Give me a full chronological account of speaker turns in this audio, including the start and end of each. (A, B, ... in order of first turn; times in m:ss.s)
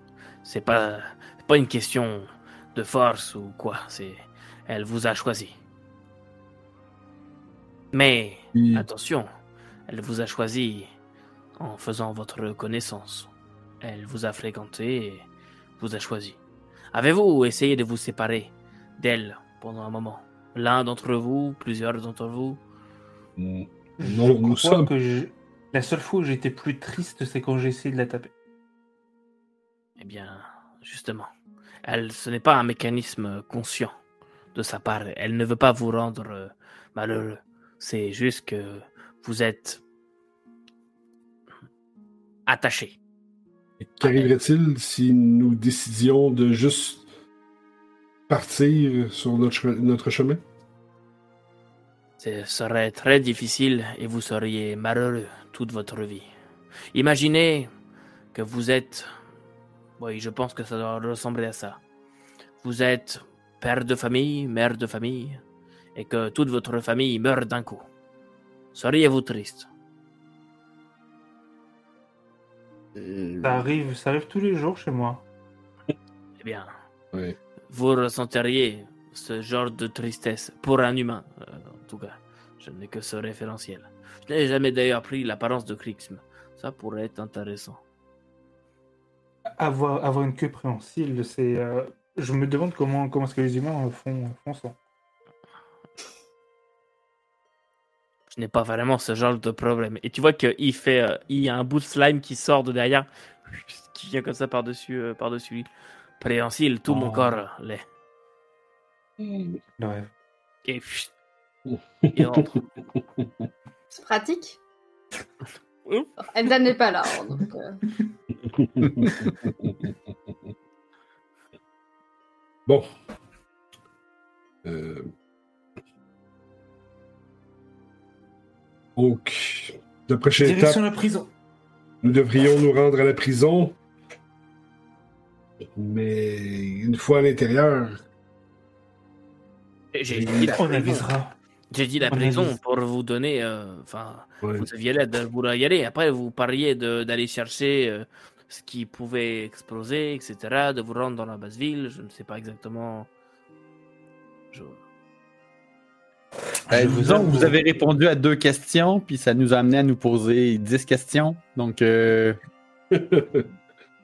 0:00.4-0:05.5 A
0:07.9-0:09.3 A
0:08.5-0:08.8 B
0:09.9-0:10.9 A
0:11.6-0:15.3 A
0:15.8-0:16.4 A
0:16.9-0:22.6 A
0:23.4-0:24.9 B
0:24.0-0:28.3 C
0:30.0-0:31.3 A
0:31.8-0:33.9 A
0:34.5-0:39.8 A
0:42.5-0:43.0 A
0:43.8-0:47.0 B
0:44.0-0:44.3 A
0:48.3-0:50.4 B
0:52.2-0:56.3 A
0:56.9-0:57.7 A
0:58.3-0:59.1 A
1:00.0-1:01.8 A
1:02.6-1:05.4 A
1:05.9-1:07.8 A
1:08.7-1:09.7 A
1:13.0-1:13.6 A
1:13.4-1:15.2 C
1:16.4-1:16.7 A
1:17.7-1:27.8 A
1:29.6-1:34.8 C
1:38.3-1:45.7 A
1:46.2-1:47.8 A
1:46.9-1:47.3 B
1:49.2-1:49.6 B
1:49.8-1:50.1 C
1:50.6-1:51.1 A
1:51.7-1:52.4 B
1:52.1-1:52.7 A
1:53.9-1:54.6 D
1:55.8-1:56.1 A
1:56.2-1:57.7 D
1:58.5-1:59.9 B
2:04.6-2:05.1 B
2:09.0-2:10.8 B
2:10.4-2:11.3 C
2:12.0-2:13.8 B
2:15.7-2:18.0 B
2:19.9-2:21.1 A
2:20.1-2:20.5 B
2:20.6-2:21.3 C
2:21.7-2:33.1 A
2:22.1-2:22.6 C
2:24.4-2:24.7 B
2:34.5-2:34.8 A
2:36.7-2:37.6 C
2:36.7-2:42.4 E
2:42.9-2:43.5 B